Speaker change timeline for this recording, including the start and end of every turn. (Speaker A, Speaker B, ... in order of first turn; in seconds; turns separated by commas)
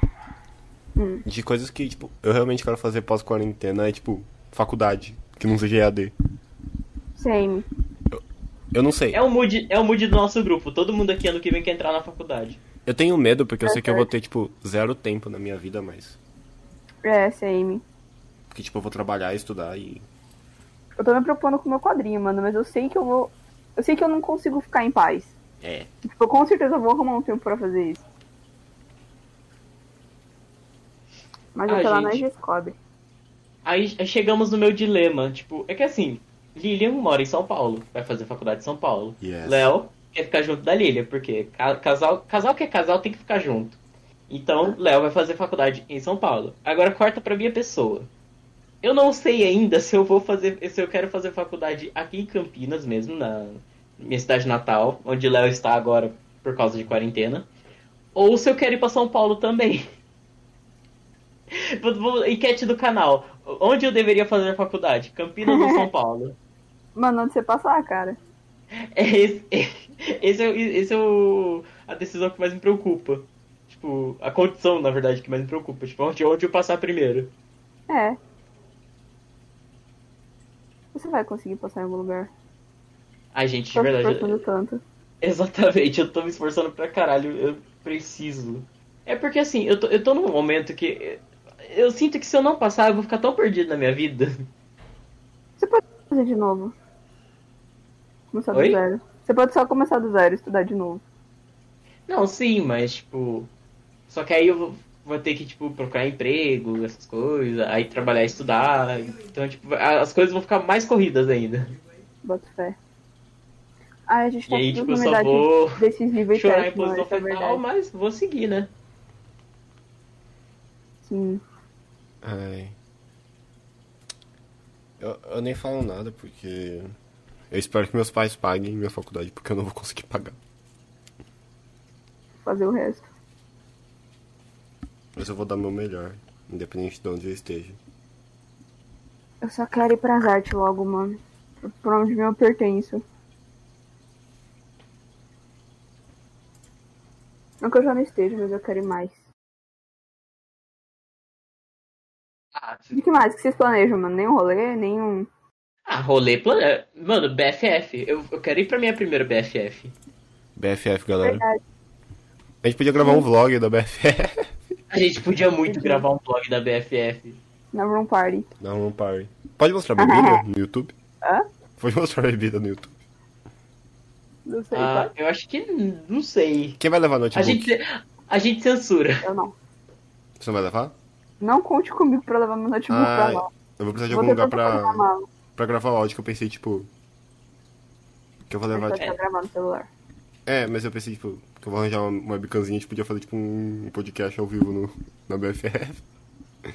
Speaker A: 0.9-1.2, Speaker B: 1.2-6.1, Speaker A: 7.2-7.7, Speaker B: 8.7-9.2, Speaker C: 9.1-12.6, Speaker B: 12.8-16.2, Speaker A: 13.6-14.1, Speaker A: 17.0-17.8, Speaker B: 18.5-20.0, Speaker A: 21.0-25.3, Speaker B: 25.6-25.9, Speaker A: 26.0-28.0, Speaker A: 31.5-32.7, Speaker C: 31.7-32.2, Speaker C: 33.6-48.1, Speaker B: 39.2-39.7, Speaker C: 48.8-57.5, Speaker C: 58.1-59.8, Speaker C: 61.5-66.4, Speaker A: 65.4-65.9, Speaker A: 67.0-68.2, Speaker C: 68.8-77.3, Speaker A: 77.9-78.2, Speaker A: 80.9-82.3, Speaker C: 83.3-84.4, Speaker A: 83.7-84.8, Speaker C: 85.2-94.5, Speaker A: 95.6-96.7, Speaker A: 98.3-101.0, Speaker C: 98.5-98.8, Speaker C: 102.1-103.5, Speaker C: 104.1-111.7, Speaker A: 112.2-112.8, Speaker A: 114.1-117.6, Speaker C: 114.5-118.7, Speaker A: 121.0-121.4, Speaker B: 122.2-122.8, Speaker B: 125.0-126.9, Speaker B: 127.5-130.4, Speaker A: 132.4-133.1, Speaker B: 135.1-137.8, Speaker A: 139.4-143.0, Speaker A: 147.6-149.2, Speaker C: 152.5-153.0, Speaker A: 152.9-155.3, Speaker C: 155.9-159.9, Speaker B: 160.6-161.4, Speaker A: 161.2-161.6, Speaker B: 162.6-164.6, Speaker A: 163.0-163.2, Speaker C: 164.9-167.4, Speaker A: 165.7-166.0, Speaker A: 167.7-168.5, Speaker B: 168.6-170.9, Speaker A: 170.0-170.4, Speaker B: 171.8-172.9, Speaker A: 174.4-175.1, Speaker C: 174.7-176.8, Speaker B: 176.8-177.7, Speaker C: 177.3-179.2, Speaker A: 179.2-179.5, Speaker B: 180.4-180.9, Speaker A: 181.4-183.5, Speaker B: 182.9-186.9, Speaker A: 184.1-185.2, Speaker B: 188.5-189.0, Speaker A: 188.7-189.9, Speaker B: 190.4-196.0